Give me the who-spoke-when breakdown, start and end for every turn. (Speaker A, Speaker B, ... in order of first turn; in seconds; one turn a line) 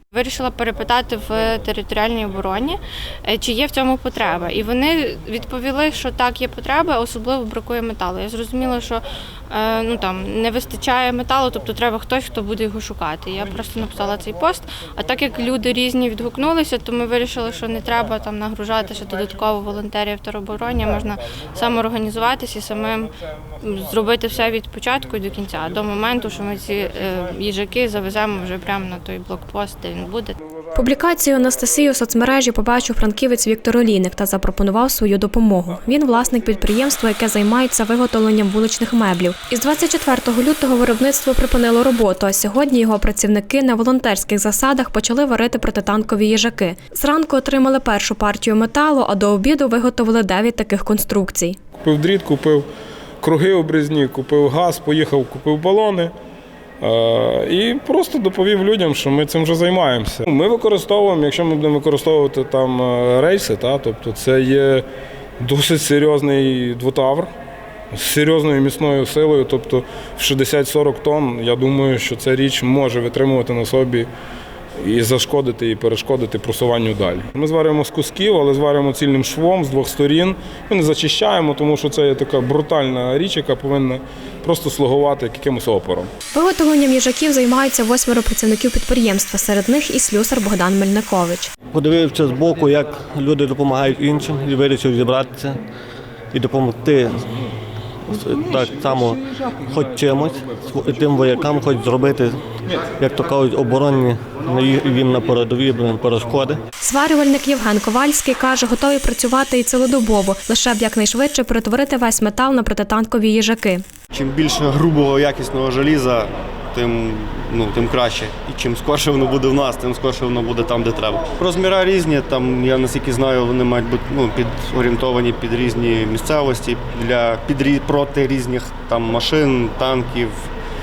Speaker A: 0.1-30.4
Speaker B: 30.7-51.6
Speaker C: 51.8-52.7
Speaker C: 53.2-56.1
Speaker C: 56.8-64.8
Speaker C: 65.4-67.3
Speaker C: 67.9-74.1
Speaker C: 74.8-86.1
Speaker B: 86.3-91.5
Speaker D: 91.7-95.6
Speaker D: 96.3-97.3
Speaker D: 98.0-106.6
Speaker B: 106.8-113.8
Speaker E: 114.1-130.5